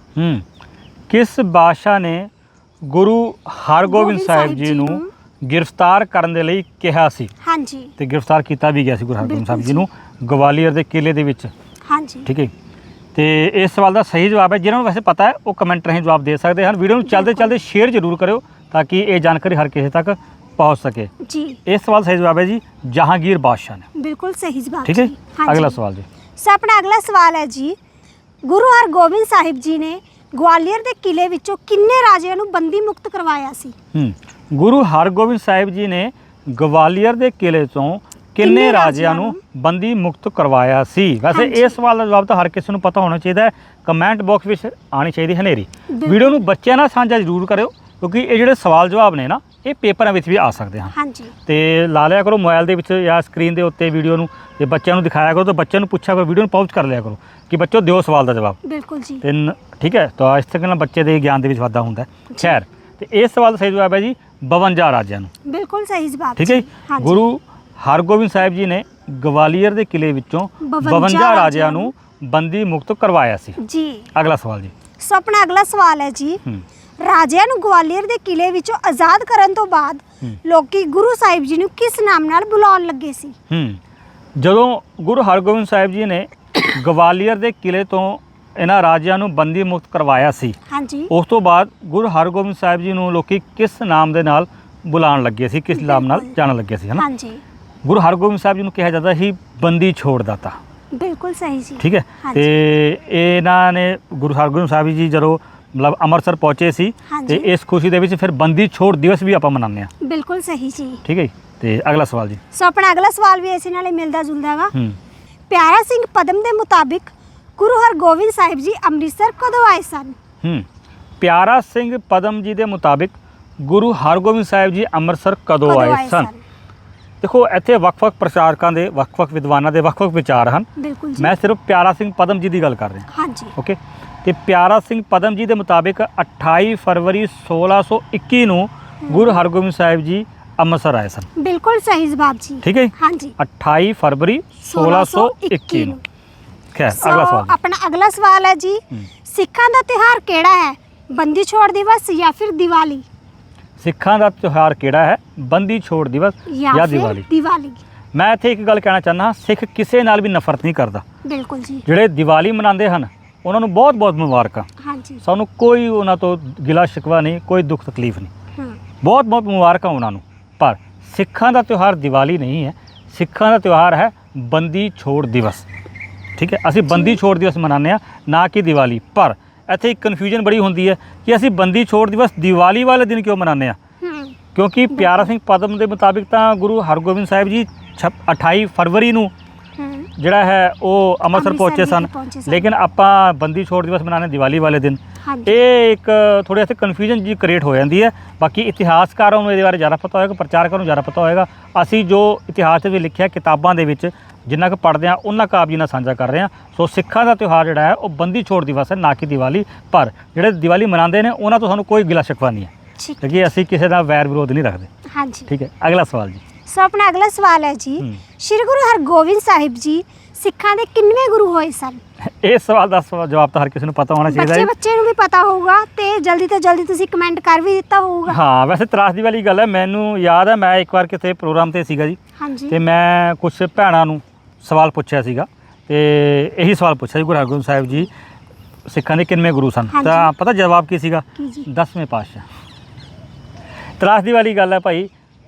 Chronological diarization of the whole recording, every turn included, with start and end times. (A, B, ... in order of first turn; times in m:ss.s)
0:00.2-0:00.4 A
0:01.1-0:02.3 A
0:02.8-0:07.3 A
0:03.8-0:05.1 B
0:07.4-0:07.9 B
0:08.0-0:11.5 A
0:09.2-0:09.8 B
0:11.8-0:12.3 B
0:12.2-0:12.5 A
0:13.1-0:21.1 A
0:17.0-0:17.6 B
0:21.2-0:21.6 B
0:21.6-0:23.8 A
0:23.9-0:25.8 B
0:24.8-0:26.0 A
0:26.4-0:27.8 B
0:28.4-0:33.7 B
0:33.9-0:50.9 A
0:38.4-0:39.4 B
0:41.3-0:41.8 B
0:45.9-0:46.3 B
0:50.9-0:51.3 B
0:51.5-0:58.6 A
0:58.6-0:59.2 B
0:59.2-1:05.3 A
1:05.4-1:07.2 B
1:06.4-1:13.6 A
1:10.6-1:11.9 B
1:13.6-1:14.1 B
1:14.1-1:14.7 A
1:15.0-1:16.4 B
1:17.0-1:23.3 B
1:23.5-1:23.8 A
1:24.4-1:30.6 A
1:30.7-1:31.1 B
1:31.1-1:37.0 A
1:35.7-1:36.4 B
1:37.0-1:37.4 B
1:37.8-1:40.6 A
1:40.9-1:42.5 B
1:41.8-1:49.9 A
1:47.1-1:47.5 B
1:50.0-1:51.0 B
1:51.0-1:52.4 A
1:52.5-1:54.7 B
1:55.5-2:00.2 B
2:01.2-2:06.3 A
2:05.6-2:06.4 B
2:07.2-2:21.2 A
2:10.8-2:11.3 B
2:13.1-2:13.5 B
2:19.0-2:19.4 B
2:21.4-2:23.4 B
2:22.6-2:26.0 A
2:24.6-2:26.0 B
2:26.7-2:27.5 A
2:26.9-2:33.0 B
2:33.8-2:37.2 A
2:36.5-2:37.8 B
2:38.1-2:41.0 A
2:41.2-2:41.8 B
2:41.8-2:44.7 A
2:44.8-2:45.2 B
2:45.2-2:48.3 A
2:49.0-2:55.6 A
2:56.4-3:03.8 A
2:56.9-2:57.2 B
3:04.0-3:04.4 B
3:04.5-3:09.3 A
3:04.9-3:05.3 B
3:09.8-3:10.1 B
3:10.2-3:32.7 A
3:11.3-3:12.7 B
3:15.2-3:15.6 B
3:33.0-3:33.5 B
3:33.2-3:34.9 A
3:35.1-3:35.5 B
3:35.5-3:36.4 A
3:36.6-3:42.0 B
3:42.2-3:44.7 A
3:44.3-3:48.4 B
3:48.3-3:52.2 A
3:52.4-3:52.8 B
3:52.7-3:58.1 A
3:58.8-4:02.4 A
3:59.9-4:00.3 B
4:01.4-4:01.7 B
4:04.0-4:05.1 A